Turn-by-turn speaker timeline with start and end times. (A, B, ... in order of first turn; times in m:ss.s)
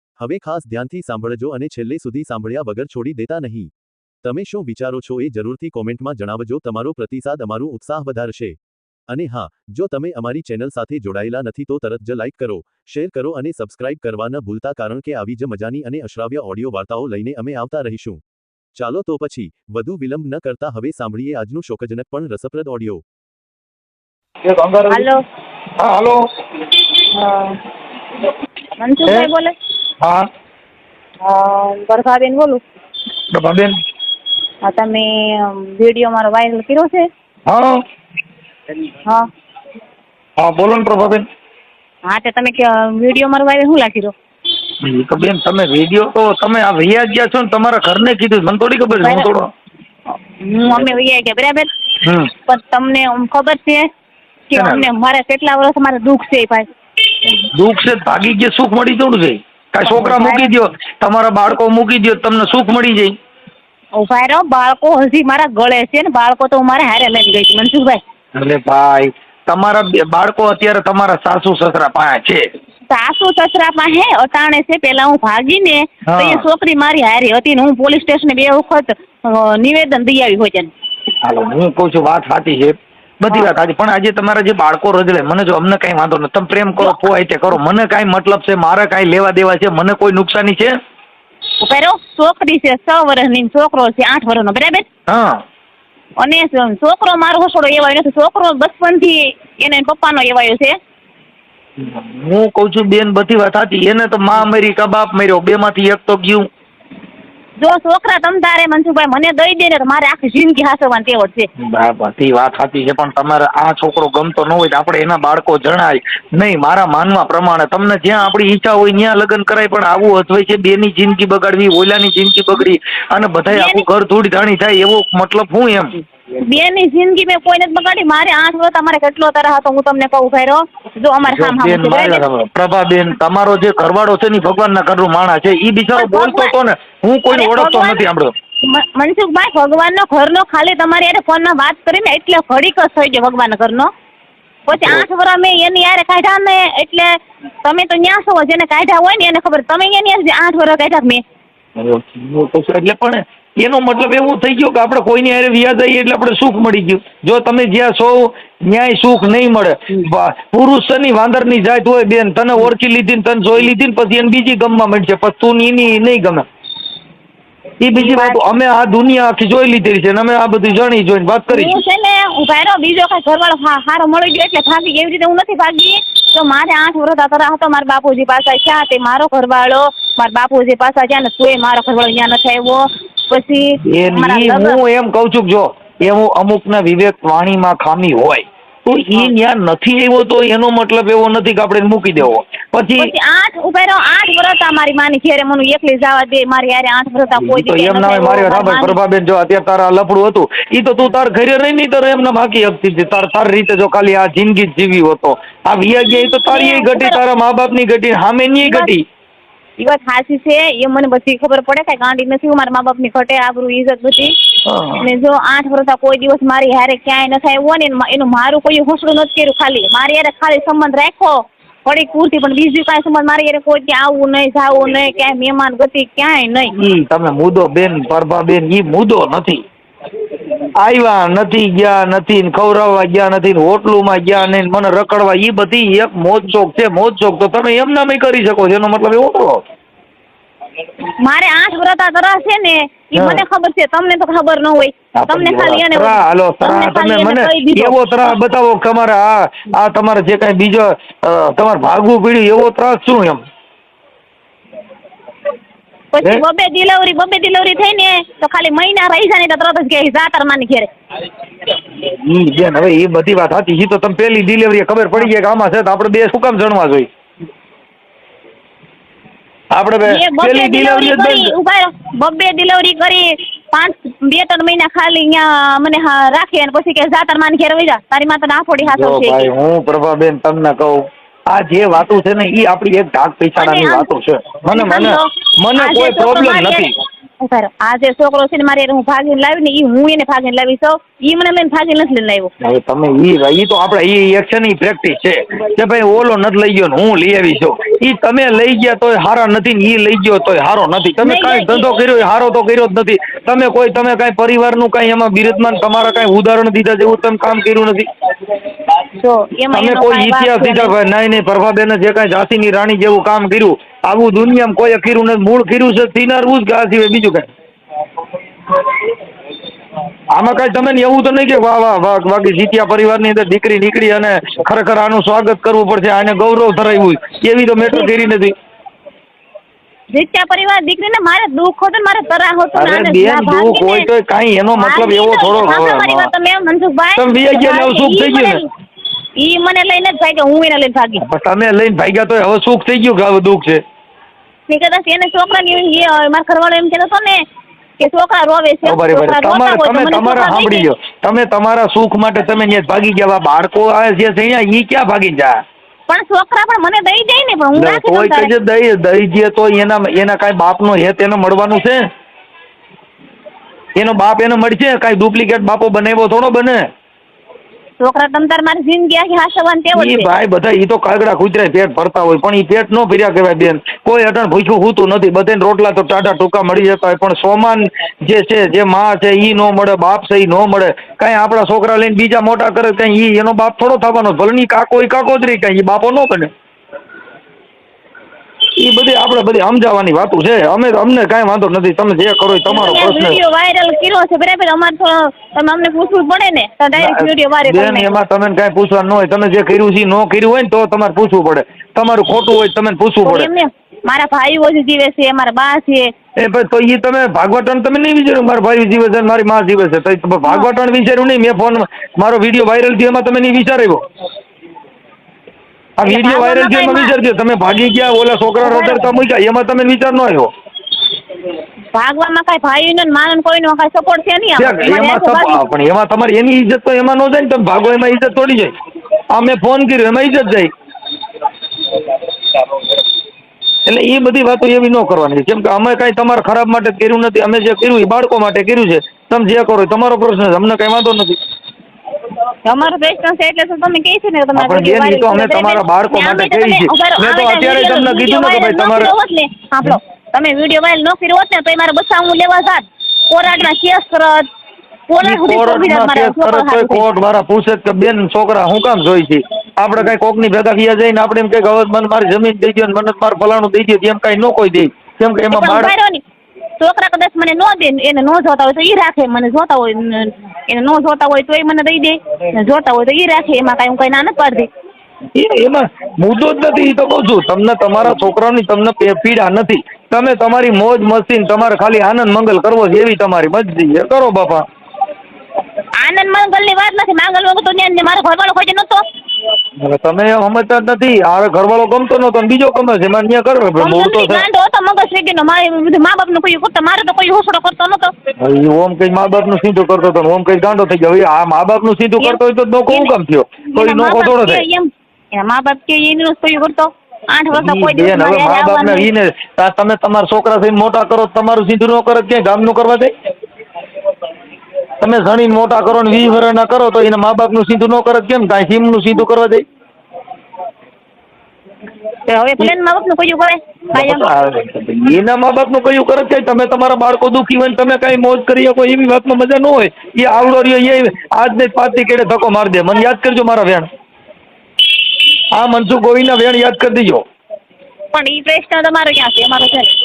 0:00.2-0:03.7 A
0:04.2-0:08.6 A
0:09.1-0:18.2 A
0:18.8-0:23.0 A
0:24.4-0:25.1 B
0:24.9-0:25.2 C
0:25.8-0:26.2 B
0:27.1-0:27.6 C
0:28.8-0:29.6 C
0:31.2-0:32.6 C
0:33.3-0:33.8 B
0:34.6-0:37.1 C
0:37.5-0:37.8 B
0:40.4-0:41.3 B
0:42.0-0:44.1 C
0:44.8-0:49.5 B
0:49.0-0:49.3 C
0:50.3-0:51.7 C
0:52.0-0:52.3 B
0:52.5-0:53.9 C
0:54.5-0:56.7 C
0:54.5-0:54.9 B
0:57.2-1:03.1 B
0:59.8-1:00.5 C
1:04.0-1:08.0 C
1:08.4-1:12.5 B
1:12.9-1:20.7 C
1:16.1-1:16.4 B
1:21.2-1:30.7 B
1:31.6-1:34.9 C
1:35.1-1:35.4 B
1:36.2-1:40.8 C
1:41.8-1:46.5 B
1:47.6-1:51.5 C
1:51.6-2:06.0 B
2:03.5-2:03.8 C
2:06.4-2:12.2 C
2:11.3-2:18.3 B
2:16.0-2:16.5 C
2:17.3-2:18.0 C
2:18.6-2:23.9 C
2:24.7-2:31.2 C
2:24.7-2:25.1 B
2:31.8-2:46.4 B
2:47.8-2:51.8 B
2:48.0-2:48.4 C
2:51.5-3:04.8 C
3:03.9-3:13.1 B
3:13.0-3:19.0 C
3:17.4-3:29.0 B
3:26.5-3:27.2 C
3:28.6-3:28.9 C
3:29.8-3:34.4 C
3:34.7-3:35.1 B
3:35.0-3:46.7 C
3:46.8-3:49.6 B
3:50.8-3:59.6 B
4:01.2-4:08.0 C
4:03.2-4:03.4 B
4:05.2-4:13.4 B
4:16.1-4:20.9 C
4:22.0-4:27.1 B
4:29.7-4:31.5 B
4:30.0-4:39.5 C
4:38.8-4:46.9 B
4:43.6-4:44.1 C
4:44.7-4:46.9 C
4:47.4-4:52.5 C
4:52.6-5:08.1 B
5:01.2-5:01.9 C
5:09.2-5:10.9 C
5:09.7-5:17.5 B
5:20.3-5:28.5 B
5:30.1-5:34.1 C
5:32.8-5:36.3 B
5:34.8-5:38.7 C
5:37.2-5:38.6 B
5:39.4-5:41.2 C
5:41.2-5:43.8 B
5:44.7-5:47.4 C
5:48.0-5:50.9 C
5:48.8-5:55.6 B
5:56.1-5:58.5 C
5:57.7-6:02.0 B
6:04.0-6:06.8 B
6:08.0-6:10.3 C
6:09.9-6:26.5 B
6:28.8-6:33.4 B
6:32.7-6:38.1 C
6:37.0-6:43.5 B
6:43.2-6:46.1 C
6:46.4-6:54.0 B
6:56.0-7:00.5 B
6:56.0-6:57.1 C
6:58.6-6:59.1 C
7:01.9-7:05.6 C
7:04.6-7:08.7 B
7:09.3-7:10.7 B
7:13.9-7:21.4 B
7:22.6-7:34.5 C
7:24.6-7:29.1 B
7:35.1-7:37.1 C
7:35.2-7:45.9 B
7:45.5-7:46.2 C
7:46.8-7:54.7 C
7:55.4-8:04.7 B
8:06.0-8:09.0 C
8:09.8-8:14.4 B
8:13.8-8:18.1 C
8:18.4-8:24.6 B
8:22.2-8:23.1 C
8:23.7-8:29.1 C
8:27.5-8:33.1 B
8:35.0-8:39.6 B
8:42.3-8:44.3 C
8:43.9-8:53.9 B
8:55.5-8:57.2 B
8:58.1-8:59.9 C